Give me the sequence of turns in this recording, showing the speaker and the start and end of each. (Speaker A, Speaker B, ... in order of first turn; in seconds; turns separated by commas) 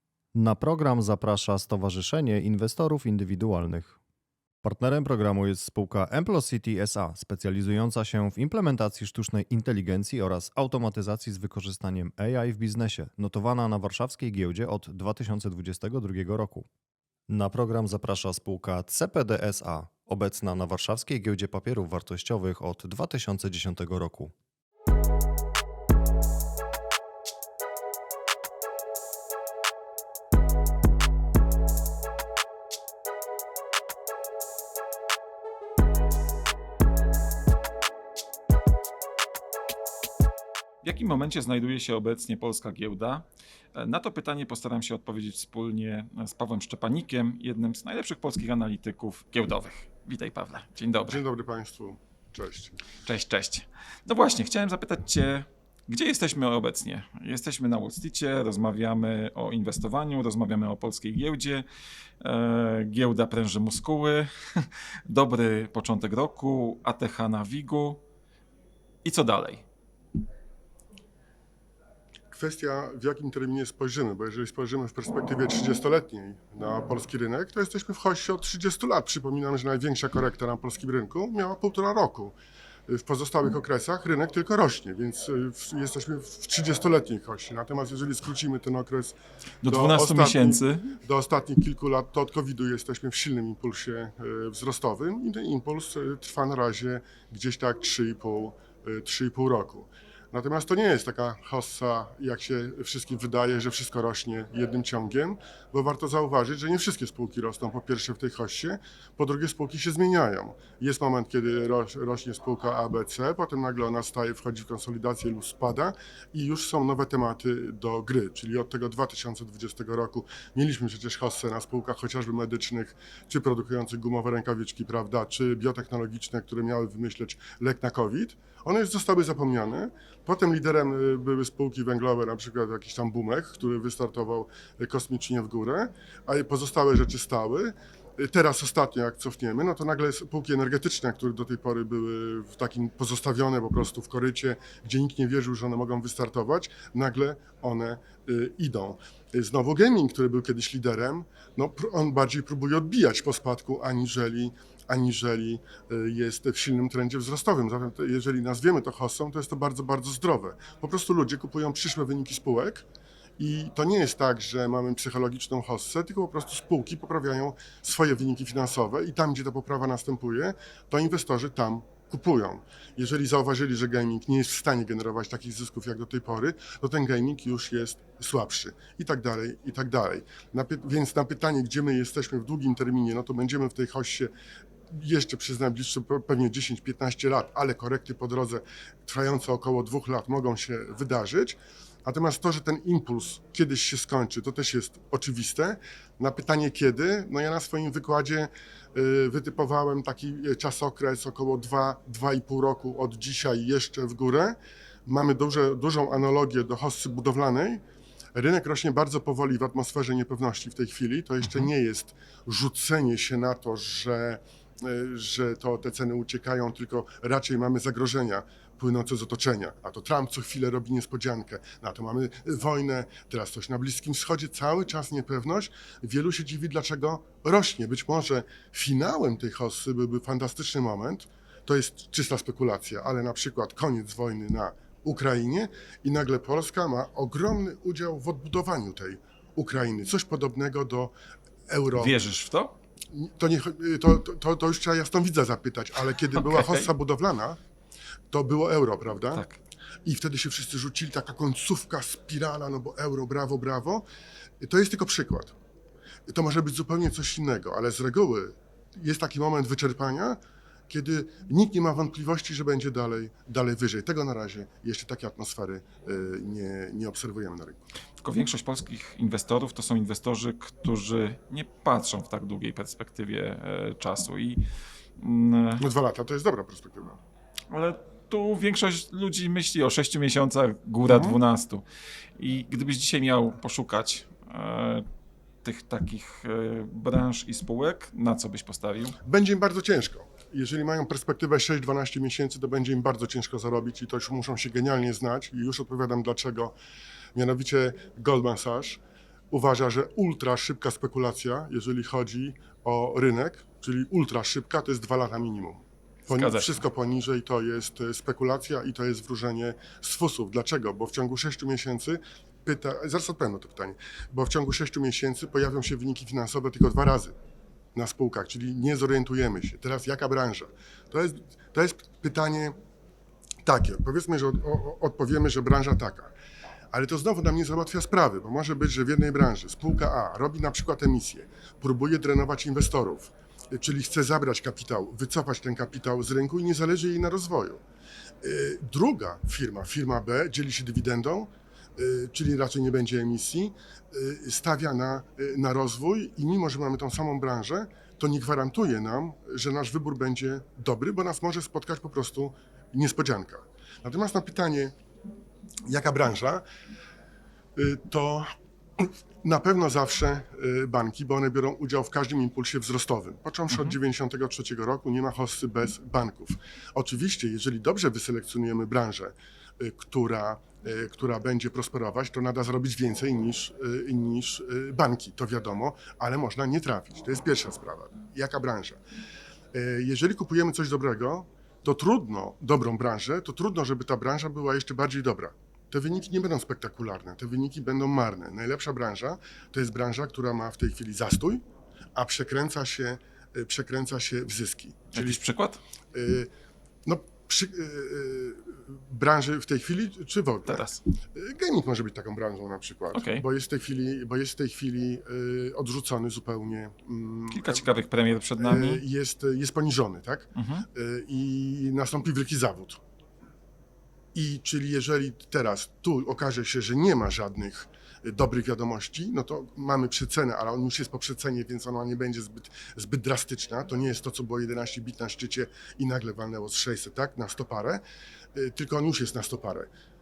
Speaker A: 0.3-4.0, Speaker A: 4.6-16.7, Speaker A: 17.3-24.3, Speaker B: 40.8-51.2, Speaker C: 51.0-52.8, Speaker B: 53.0-61.7, Speaker B: 62.2-68.0, Speaker B: 69.0-69.7, Speaker C: 72.3-82.3, Speaker C: 82.9-162.9, Speaker B: 89.6-91.0, Speaker C: 163.4-184.3, Speaker C: 184.9-207.8, Speaker C: 208.3-241.1, Speaker C: 241.7-242.2, Speaker B: 242.0-242.8, Speaker C: 243.1-247.6, Speaker B: 246.3-246.9, Speaker C: 248.3-249.4, Speaker C: 250.1-254.1, Speaker C: 254.6-255.6, Speaker C: 256.3-267.9, Speaker B: 268.2-274.6, Speaker B: 275.2-275.9, Speaker C: 275.8-277.2, Speaker B: 277.7-281.9, Speaker C: 281.0-281.4, Speaker B: 282.4-285.0, Speaker B: 285.6-289.2, Speaker C: 289.2-296.7, Speaker C: 297.4-317.3, Speaker B: 306.3-306.8, Speaker C: 317.9-322.8, Speaker C: 323.6-326.3, Speaker C: 326.9-337.8, Speaker C: 338.4-354.9, Speaker C: 355.9-356.6, Speaker C: 357.8-379.0, Speaker B: 363.7-364.0, Speaker C: 379.7-391.6, Speaker C: 392.2-395.4, Speaker B: 395.1-395.8, Speaker C: 396.1-396.5, Speaker C: 397.1-407.9, Speaker B: 400.7-401.0, Speaker B: 403.1-403.4, Speaker B: 407.5-409.0, Speaker C: 408.6-413.0, Speaker B: 410.6-410.9, Speaker C: 414.3-428.0, Speaker C: 428.6-429.9